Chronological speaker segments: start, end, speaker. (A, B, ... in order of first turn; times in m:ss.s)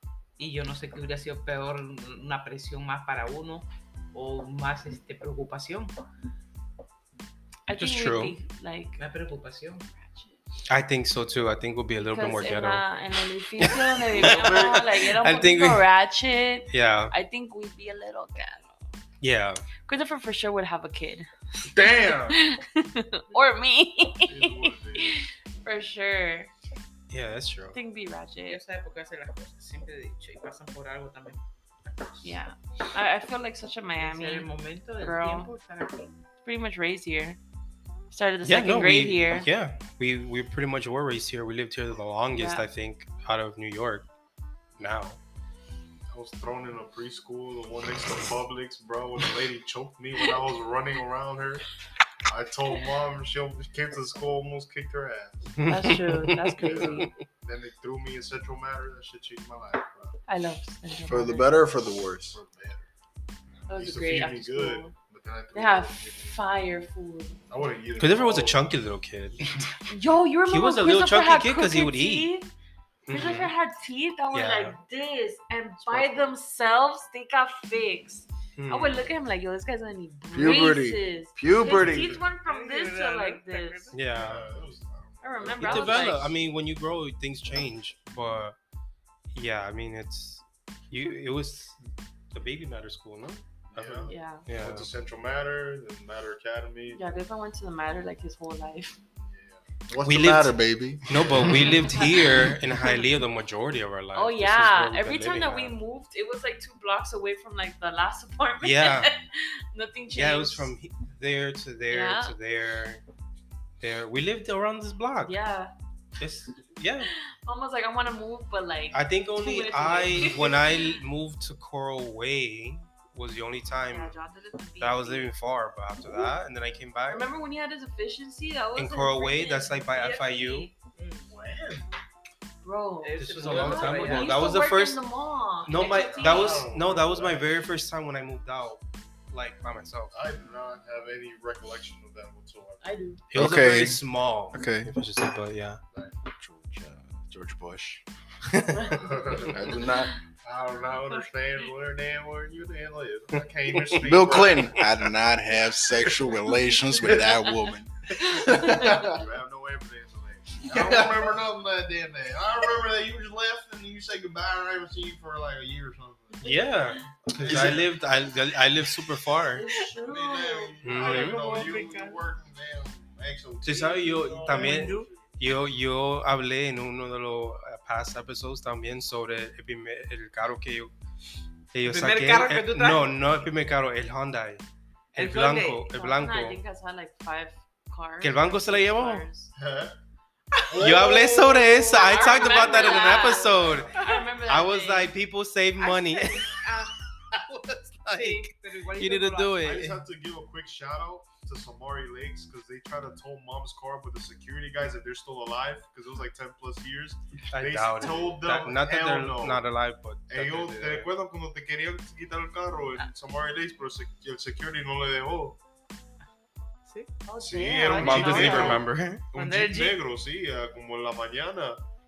0:00.4-0:05.9 A
0:07.7-0:09.0 B
0:07.8-0:08.4 C
0:09.0-0:09.9 A
0:09.9-0:10.4 B
0:10.7-0:12.8 C
0:12.1-0:18.9 B
0:13.6-0:15.9 C
0:14.2-0:14.8 D
0:16.7-0:17.1 C
0:19.2-0:19.6 C
0:19.9-0:26.5 B
0:21.7-0:22.4 E
0:24.2-0:25.2 D
0:27.1-0:27.8 C
0:27.7-0:28.6 B
0:28.5-0:32.4 A
0:32.2-0:35.5 B
0:34.0-0:36.2 A
0:36.4-0:37.4 B
0:38.1-0:39.5 B
0:38.4-0:44.1 C
0:42.3-0:42.7 B
0:44.8-0:45.2 C
0:46.1-0:51.7 D
0:52.2-0:55.5 D
0:55.6-0:57.2 C
0:55.7-0:57.1 B
0:56.6-1:00.2 D
1:00.3-1:01.6 B
1:01.1-1:02.4 E
1:02.3-1:02.9 D
1:03.7-1:04.9 B
1:03.7-1:06.4 D
1:05.5-1:07.4 B
1:07.5-1:08.6 D
1:08.0-1:09.5 C
1:09.9-1:12.5 B
1:10.5-1:12.3 C
1:13.1-1:13.5 C
1:13.1-1:23.9 B
1:14.3-1:14.8 C
1:18.6-1:19.1 C
1:20.3-1:22.2 E
1:21.6-1:22.3 D
1:22.4-1:24.1 A
1:23.9-1:24.5 C
1:24.1-1:26.4 D
1:25.2-1:26.3 B
1:25.4-1:28.6 C
1:29.3-1:31.8 C
1:32.3-1:34.9 C
1:33.7-1:37.2 D
1:34.1-1:34.4 B
1:36.9-1:39.0 B
1:39.2-1:39.6 D
1:39.9-1:41.8 E
1:40.0-1:45.8 C
1:41.6-1:43.1 B
1:44.2-1:50.7 B
1:48.6-1:49.1 C
1:50.1-1:53.0 C
1:51.9-1:52.4 B
1:53.8-1:55.4 C
1:55.2-1:55.7 B
1:56.2-1:57.1 C
1:57.3-2:01.0 B
1:58.9-2:04.2 C
2:03.9-2:05.3 B
2:04.8-2:07.3 C
2:06.1-2:06.3 B
2:07.1-2:10.7 B
2:08.8-2:10.7 C
2:10.9-2:11.3 A
2:11.3-2:11.8 D
2:12.6-2:16.7 B
2:13.0-2:14.5 A
2:13.2-2:15.0 C
2:15.7-2:20.1 C
2:15.8-2:16.4 A
2:15.8-2:17.5 D
2:20.1-2:22.9 D
2:22.8-2:23.2 B
2:23.3-2:25.8 C
2:23.4-2:24.9 E
2:26.3-2:28.0 E
2:28.5-2:29.0 C
2:28.7-2:29.0 B
2:28.9-2:29.6 D
2:29.4-2:30.1 E
2:30.4-2:34.8 D
2:33.3-2:34.9 C
2:34.0-2:39.2 E
2:36.7-2:37.2 B
2:38.2-2:39.1 B
2:38.8-2:46.6 D
2:40.7-2:41.3 E
2:46.4-2:49.6 C
2:47.4-2:47.9 D
2:49.6-2:50.8 B
2:49.8-2:55.3 D
2:50.8-2:51.4 C
2:51.0-2:52.2 A
2:53.6-3:00.9 C
2:54.4-2:55.1 A
3:01.7-3:04.6 C
3:01.8-3:03.2 A
3:05.1-3:06.6 C
3:05.2-3:05.9 A
3:05.9-3:09.5 B
3:08.2-3:09.3 C
3:09.6-3:10.0 D
3:10.5-3:11.2 A
3:10.7-3:12.0 D
3:10.8-3:16.6 C
3:11.9-3:15.1 B
3:12.0-3:13.3 A
3:13.3-3:13.9 D
3:13.9-3:14.3 A
3:15.8-3:17.0 A
3:17.3-3:20.0 C
3:18.1-3:19.6 A
3:19.6-3:29.7 D
3:27.5-3:31.1 C
3:30.3-3:35.6 D
3:36.9-3:37.3 A
3:37.3-3:38.8 B
3:37.4-3:41.8 D
3:37.8-3:38.7 A
3:37.9-3:39.3 C
3:39.3-3:40.0 A